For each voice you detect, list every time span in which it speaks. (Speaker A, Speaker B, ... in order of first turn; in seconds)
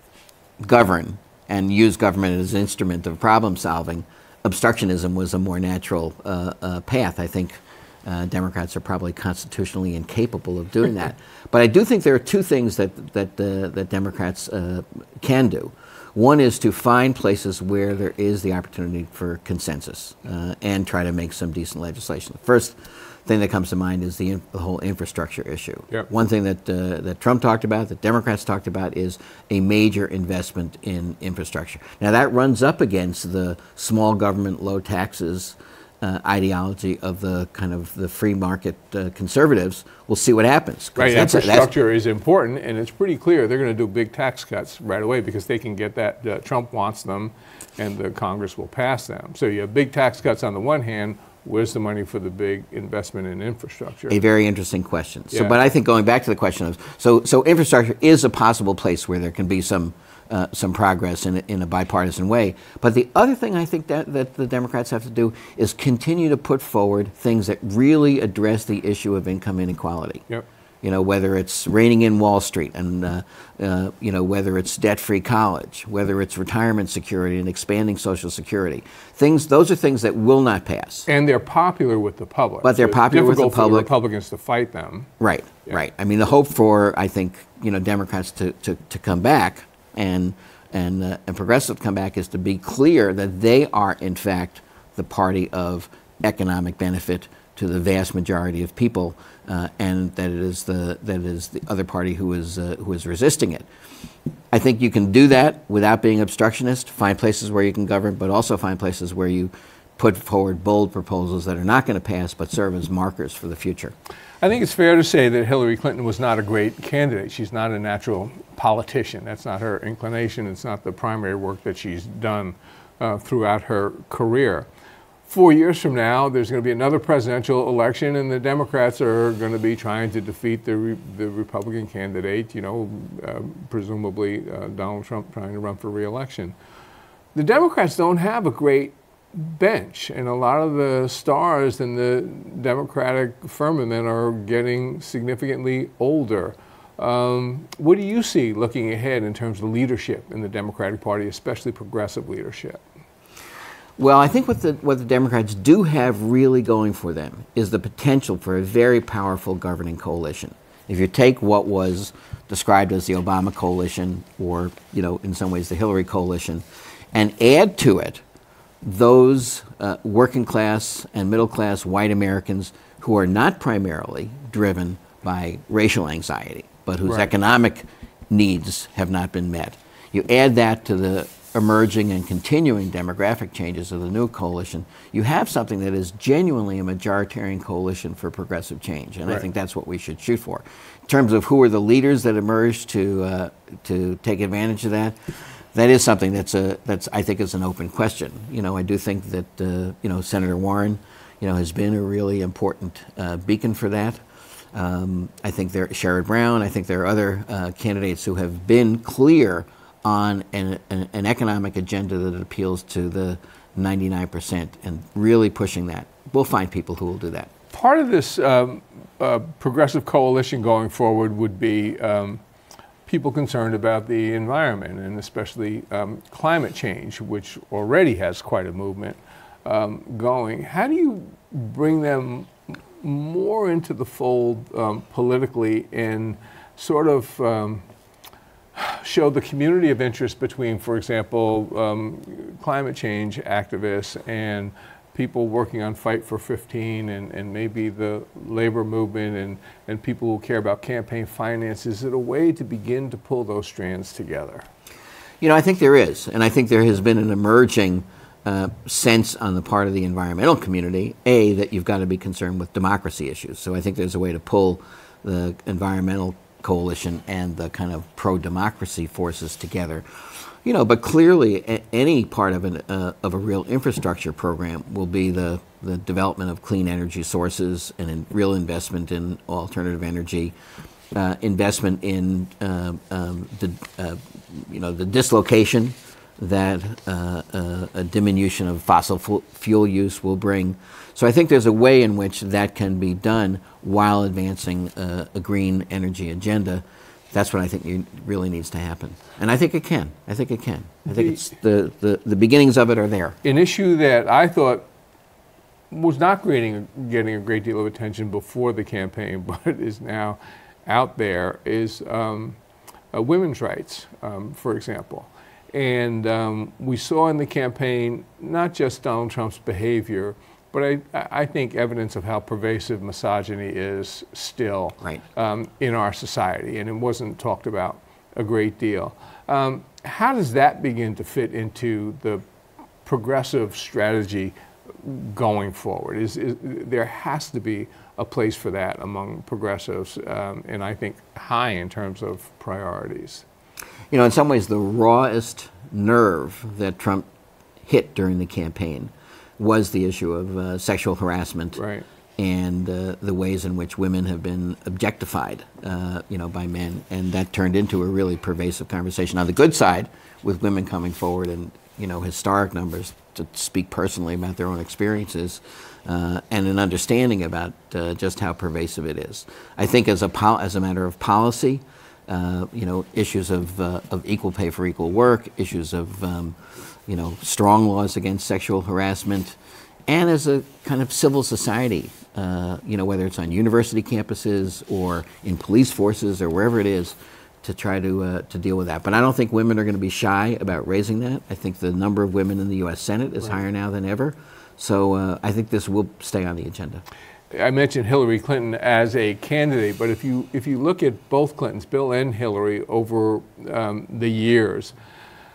Speaker A: 0.6-41.7, 54.1-70.2, 70.8-81.1, 82.6-83.9, 85.2-103.7, 104.5-114.0, 154.0-168.2, 168.8-195.2, 195.7-204.2, 204.7-217.5, 255.4-280.5, 281.1-303.4, 344.1-347.2, 347.9-351.8, 352.4-397.0
Speaker B: 41.0-54.2, 55.3-55.6, 81.1-85.1, 114.4-124.7, 125.3-136.6, 137.3-152.8, 217.7-222.4, 223.1-237.8, 238.8-254.7, 301.1-301.4, 303.4-304.9, 305.9-312.6, 313.1-332.4, 333.1-343.4, 351.8-352.1, 397.5-404.9